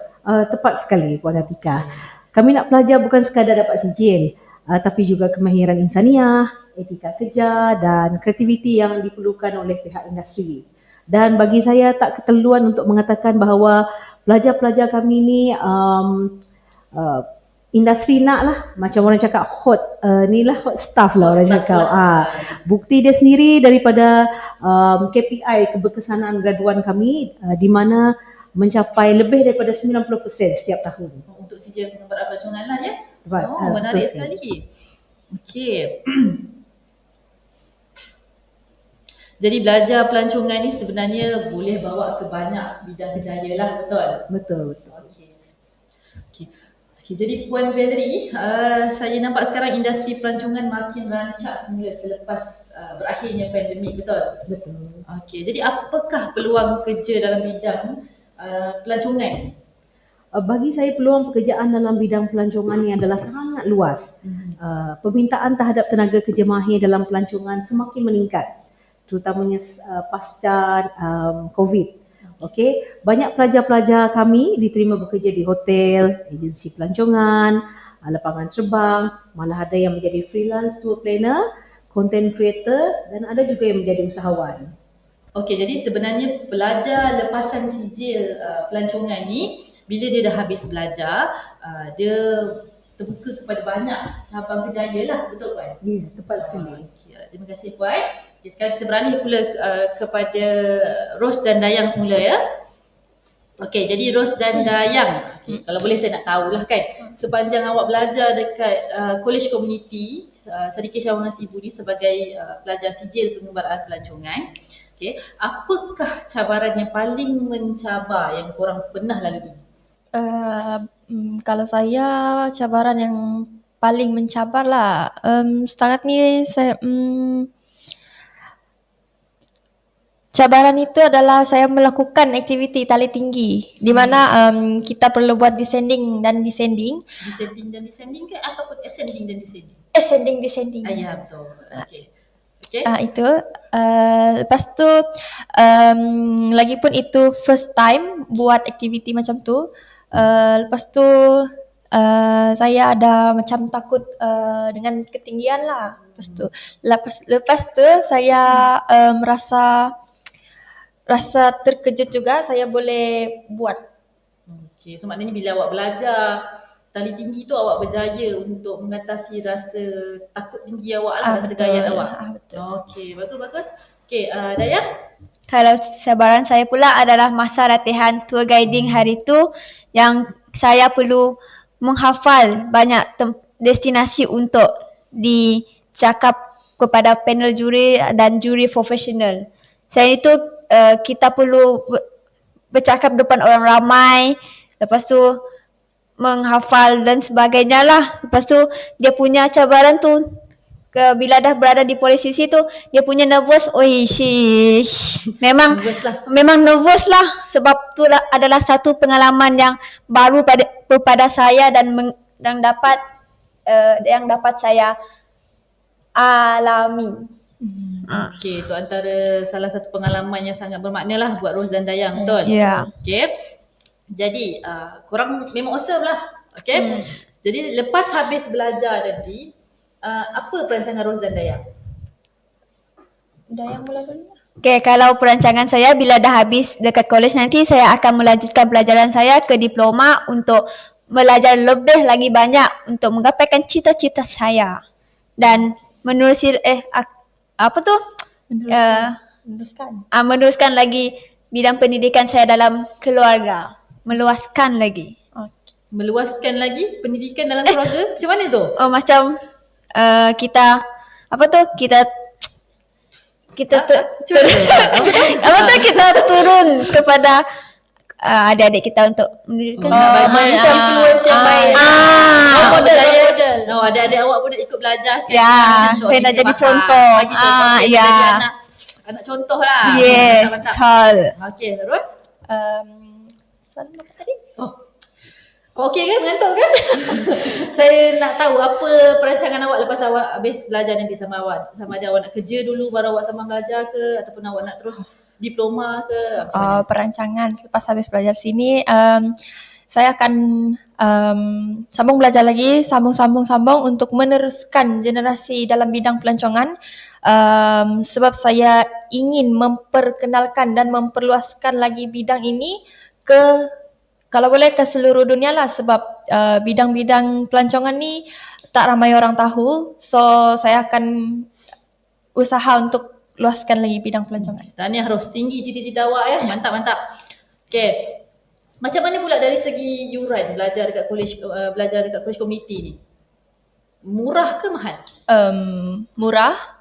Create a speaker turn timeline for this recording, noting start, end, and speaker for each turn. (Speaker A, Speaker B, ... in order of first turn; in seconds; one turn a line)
Speaker A: 0.3-16.3
Speaker B: 1.7-2.0
Speaker A: 16.9-17.2
Speaker A: 17.8-31.2
Speaker B: 21.2-22.6
Speaker B: 31.3-34.6
Speaker A: 33.2-34.3
Speaker B: 35.3-36.4
Speaker B: 39.4-44.2
Speaker A: 44.3-44.9
Speaker B: 44.9-45.4
Speaker B: 47.0-54.4
Speaker A: 54.5-55.0
Speaker B: 55.1-59.5
Speaker A: 60.4-64.1
Speaker B: 64.2-64.6
Speaker A: 64.6-68.5
Speaker A: 69.1-81.4
Speaker B: 72.2-72.5
Speaker A: 81.9-84.7
Speaker B: 85.4-95.8
Speaker A: 95.8-96.9
Speaker B: 96.3-102.4
Speaker B: 103.6-114.5
Speaker B: 115.0-119.6
Speaker C: 120.1-127.5
Speaker C: 130.3-137.0
Speaker B: 133.9-134.3
Speaker B: 137.2-139.8
Speaker C: 139.9-141.1
Speaker B: 140.8-142.1
Speaker B: 142.6-142.9
Speaker C: 142.9-145.0
Speaker C: 145.6-159.9
Speaker B: 156.2-156.5
Speaker C: 161.1-163.8
Speaker B: 164.5-166.4
Speaker B: 166.9-174.8
Speaker C: 171.2-172.6
Speaker D: 175.5-192.0
Speaker D: 192.7-195.4
Speaker D: 196.2-200.4
Speaker D: 200.9-213.0
Speaker B: 205.7-206.2
Speaker D: 213.7-215.0
Speaker D: 216.2-217.3
Speaker C: 217.6-218.1
Speaker D: 218.0-218.3
Speaker B: 218.1-223.3
Speaker C: 222.2-222.4
Speaker D: 222.4-222.9
Speaker B: 224.1-229.5
Speaker D: 226.8-227.2
Speaker B: 230.0-231.6
Speaker C: 233.5-234.4
Speaker D: 234.6-244.8
Speaker D: 245.4-248.0
Speaker C: 248.5-250.0
Speaker D: 248.7-249.2
Speaker D: 250.1-255.2
Speaker C: 255.4-255.7
Speaker B: 255.9-258.8
Speaker D: 258.8-259.4
Speaker D: 259.9-260.8
Speaker D: 261.3-262.1
Speaker D: 263.6-267.5
Speaker B: 263.7-266.1
Speaker D: 268.2-273.4
Speaker B: 269.8-280.8
Speaker C: 269.9-272.9
Speaker D: 275.3-278.4
Speaker D: 279.8-281.3
Speaker B: 281.4-282.1
Speaker C: 282.5-284.4
Speaker B: 284.6-284.8
Speaker B: 285.8-296.9
Speaker C: 296.5-299.4
Speaker C: 299.9-306.7
Speaker C: 307.2-313.7
Speaker C: 314.3-321.5
Speaker C: 322.4-324.7
Speaker B: 324.4-327.0
Speaker B: 327.7-328.2
Speaker B: 328.8-333.0
Speaker B: 334.0-335.1
Speaker C: 335.3-336.6